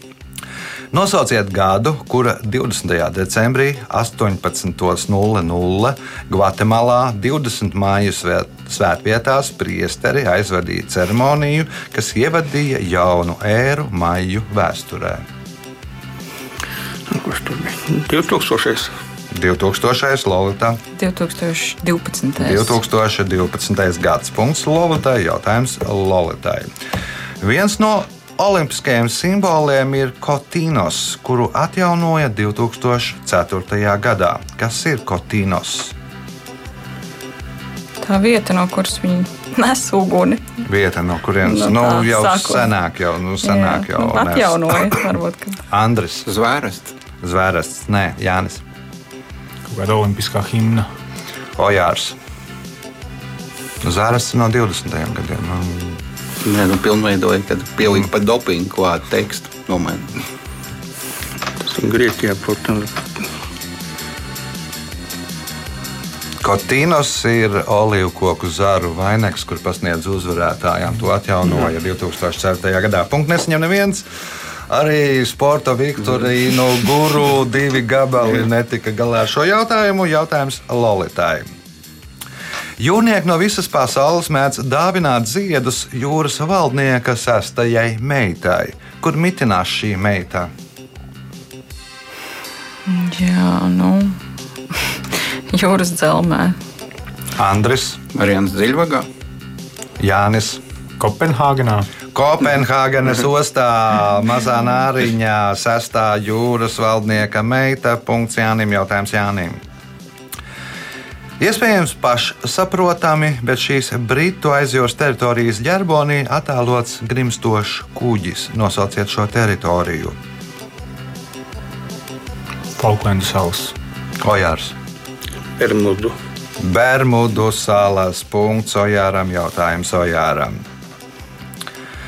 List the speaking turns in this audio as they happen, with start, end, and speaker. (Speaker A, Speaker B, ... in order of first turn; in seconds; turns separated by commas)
Speaker A: 0.9-15.2, Speaker B: 17.1-18.9, Speaker A: 19.3-20.8, Speaker C: 20.9-22.8, Speaker A: 22.4-26.7, Speaker A: 27.4-35.9, Speaker C: 38.0-40.6, Speaker A: 40.6-44.9, Speaker C: 41.4-42.7, Speaker C: 43.4-45.6, Speaker A: 45.7-46.3, Speaker D: 46.2-46.9, Speaker A: 47.2-48.6, Speaker E: 49.7-50.9, Speaker A: 51.6-52.1, Speaker A: 53.8-56.0, Speaker D: 56.4-60.2, Speaker B: 61.6-63.3, Speaker A: 66.4-74.0, Speaker A: 74.7-81.5, Speaker A: 82.8-90.5, Speaker C: 92.8-94.2, Speaker C: 94.7-96.6, Speaker A: 97.4-98.0, Speaker D: 98.1-99.1, Speaker A: 100.0-100.6, Speaker E: 101.0-101.9, Speaker A: 102.1-109.6, Speaker A: 111.4-120.2, Speaker E: 122.7-123.7, Speaker A: 124.2-124.7, Speaker B: 125.6-126.1, Speaker A: 126.6-130.6